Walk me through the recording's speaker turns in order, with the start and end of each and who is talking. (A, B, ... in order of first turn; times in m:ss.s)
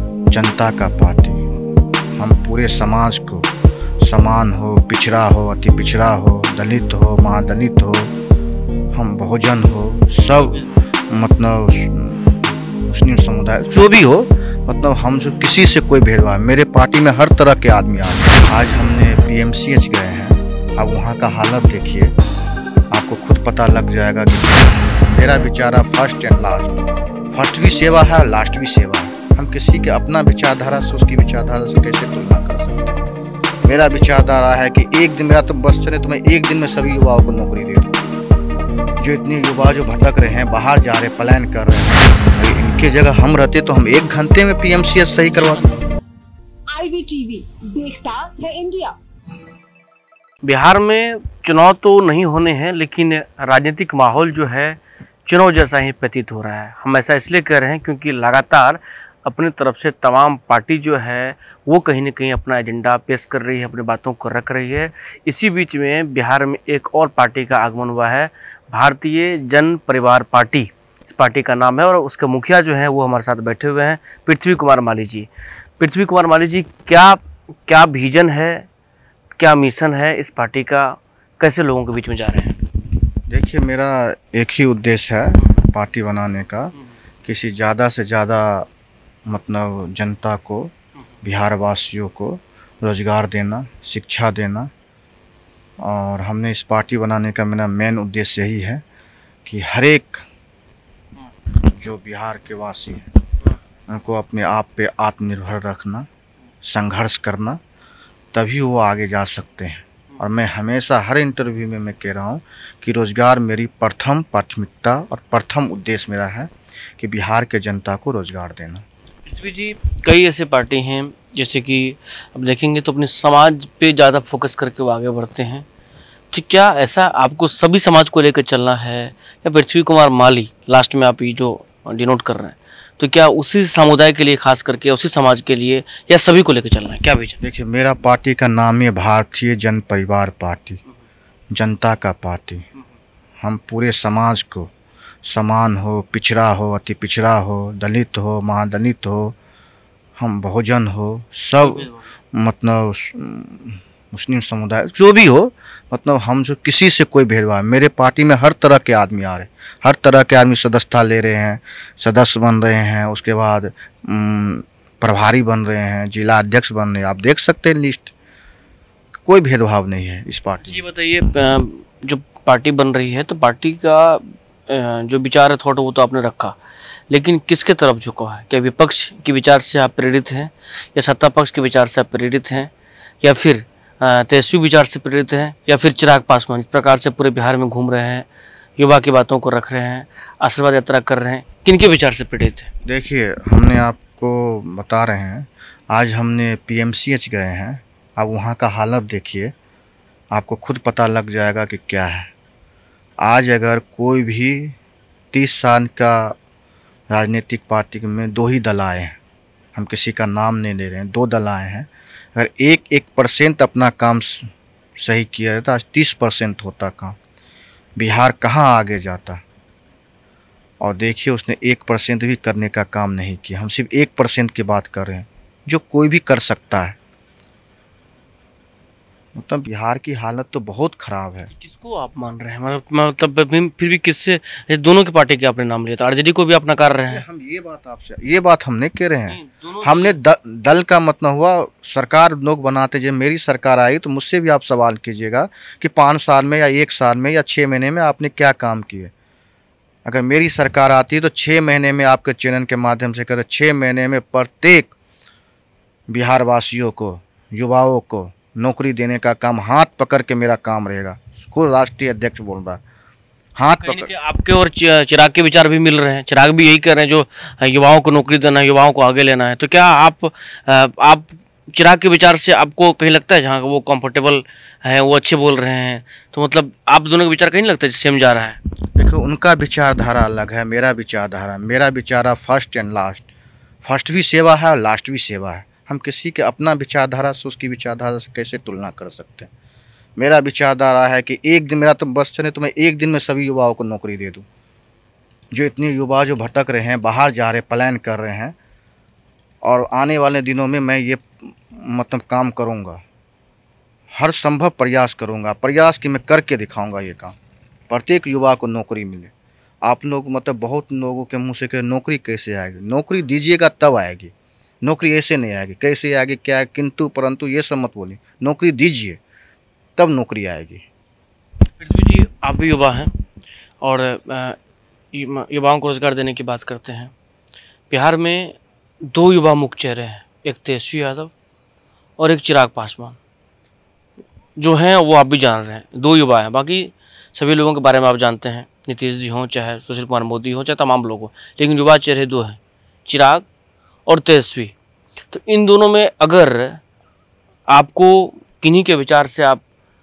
0:00.3-0:01.4 A
0:02.2-0:03.5 A
0:04.0-0:08.1 A
0:08.9-0:22.2 A
0:22.9-0:26.8 A
0:27.3-0:33.0 A
0:33.6-0:38.0 A
0:39.0-0:45.7 A
0:46.7-0:49.0 B
0:50.4-1:18.7 C
1:19.4-1:22.6 C
1:23.3-1:28.7 A
1:29.3-1:34.7 A
1:35.8-1:38.8 A
1:39.4-1:40.2 A
1:41.7-1:43.1 A
1:43.9-1:46.1 A
1:46.6-1:47.6 A
1:48.3-1:58.8 A
1:59.3-2:05.7 C
2:06.3-2:17.4 C
2:17.4-2:20.8 A
2:21.5-2:22.6 A
2:23.4-2:24.7 A
2:25.2-2:29.4 A
2:30.2-2:48.1 A
2:31.6-2:32.1 C
2:49.3-2:50.8 A
2:50.6-2:56.6 C
2:57.1-3:08.3 C
3:08.8-3:12.7 C
3:12.9-3:19.5 A
3:20.3-3:22.3 A
3:23.2-3:24.8 A
3:25.3-3:26.4 A
3:27.1-3:29.2 A
3:29.8-3:37.2 A
3:38.0-3:39.4 A
3:40.8-3:47.0 A
3:49.4-3:51.5 A
3:51.5-3:57.2 C
3:57.1-4:09.1 A
3:59.3-4:00.2 C
4:10.1-4:15.0 A
4:16.1-4:22.8 A
4:23.6-4:24.1 A
4:23.8-4:38.6 C
4:39.0-4:43.3 A
4:43.8-4:49.5 A
4:50.2-4:54.4 A
4:55.5-4:58.6 A
4:59.6-5:03.0 A
5:04.2-5:07.4 A
5:07.9-5:09.3 A
5:09.8-5:14.3 A
5:14.8-5:19.2 A
5:20.0-5:20.8 A
5:21.8-5:23.1 C
5:23.8-5:24.6 C
5:25.1-5:27.1 C
5:27.9-5:28.6 C
5:29.1-5:31.3 C
5:32.2-5:33.2 C
5:34.6-5:43.5 C
5:44.1-5:44.7 C
5:45.3-5:46.8 C
5:47.7-5:49.6 C